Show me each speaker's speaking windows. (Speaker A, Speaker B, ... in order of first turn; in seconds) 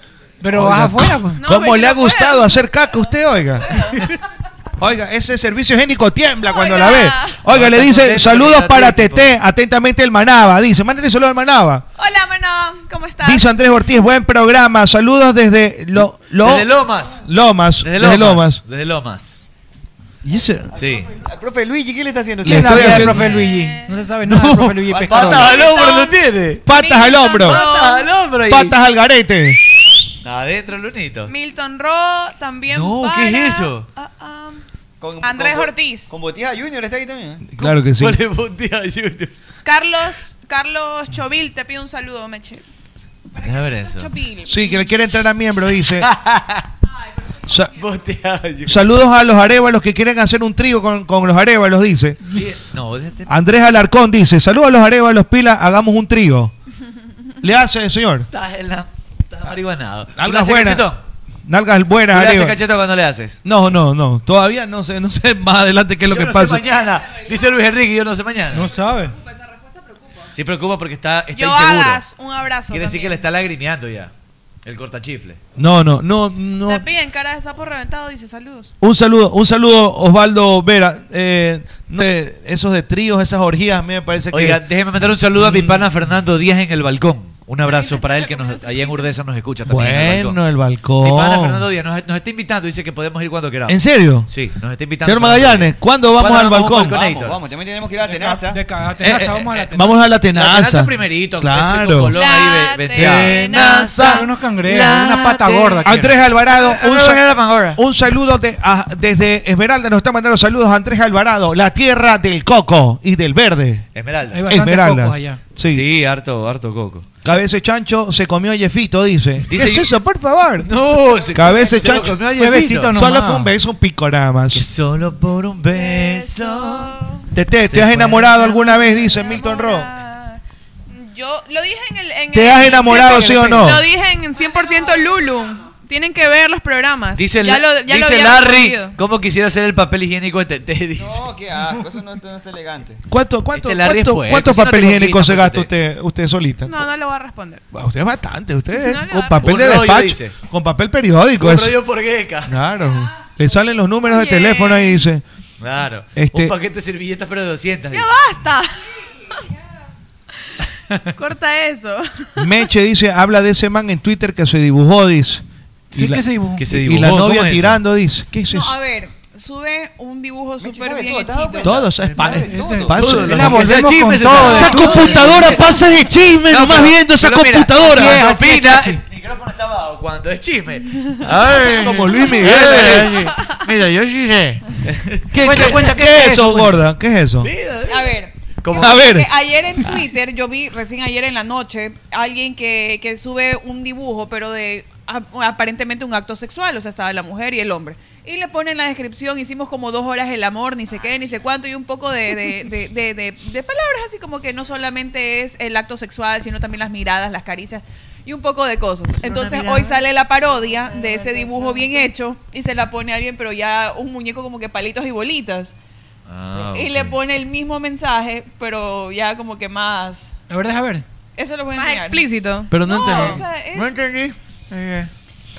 Speaker A: 0.4-1.4, 22.4-25.5, 68.5-69.2, 98.1-100.0, 104.0-106.2, 114.3-115.4, 122.4-123.5, 132.9-133.7, 165.9-166.6, 172.2-175.5, 177.8-179.0, 185.4-186.8, 220.5-221.1
Speaker B: 0.5-3.9, 4.8-11.8, 13.2-18.6, 20.2-20.7, 22.4-23.3, 26.7-27.6, 28.5-29.6, 37.5-38.2, 44.5-46.1, 47.5-47.7, 48.7-52.4, 53.3-56.5, 57.4-58.3, 60.2-60.9, 61.5-62.6, 63.4-66.7, 75.6-76.9, 78.8-84.6, 85.4-85.9, 89.7-91.6, 93.7-94.3, 95.0-97.0, 99.7-102.2, 102.9-104.2, 105.8-113.9, 114.5-115.8, 117.2-120.7, 121.3-122.2, 122.9-124.7, 127.3-129.9, 132.3-133.8, 143.1-146.8, 147.7-151.8, 152.5-155.2, 156.2-156.5, 162.4-168.8, 171.6-173.8, 174.3-178.3, 181.3-183.2, 185.3-187.5, 188.7-189.3, 222.7-224.1
Speaker C: 1.4-2.7, 6.4-7.4, 12.0-13.6, 23.3-24.0, 25.4-28.1, 31.3-34.6, 35.2-36.2, 39.6-42.6, 71.3-73.2, 76.7-78.7, 102.1-104.3, 127.0-127.2, 128.5-130.4, 130.9-139.0, 146.7-147.6, 148.7-149.5, 154.1-155.1, 157.9-158.9, 161.2-162.7, 221.7-222.8
Speaker D: 7.5-9.4, 16.4-17.3, 17.8-19.4, 20.7-21.1, 23.1-23.6, 24.3-26.6, 27.4-28.8, 30.2-31.3, 32.7-33.9, 37.6-39.3, 43.4-44.1, 46.0-46.7, 47.7-48.8, 52.3-53.3, 58.3-61.0, 62.1-63.4, 66.1-68.8, 70.3-72.1, 72.7-74.1, 74.7-75.4, 84.3-90.4, 91.0-97.4, 99.0-99.7, 100.3-107.8, 113.9-114.7, 115.7-117.1, 119.5-119.9, 120.7-123.0, 124.5-127.0, 127.7-128.4, 137.2-141.2, 143.5-145.7, 149.4-150.3, 151.4-152.6, 155.6-158.2, 166.6-167.8, 172.9-175.5, 176.5-185.8, 187.4-189.2, 209.1-210.1, 210.9-211.6, 216.3-217.2, 223.1-225.1
Speaker E: 20.7-23.1, 24.9-25.7, 35.0-37.5, 96.9-98.6, 141.0-143.0, 170.6-173.0, 174.6-175.8
Speaker F: 43.4-44.9, 69.2-70.2, 129.0-129.7, 134.6-134.9, 168.5-171.8, 187.9-215.8, 216.6-220.4, 221.4-222.3, 222.8-224.0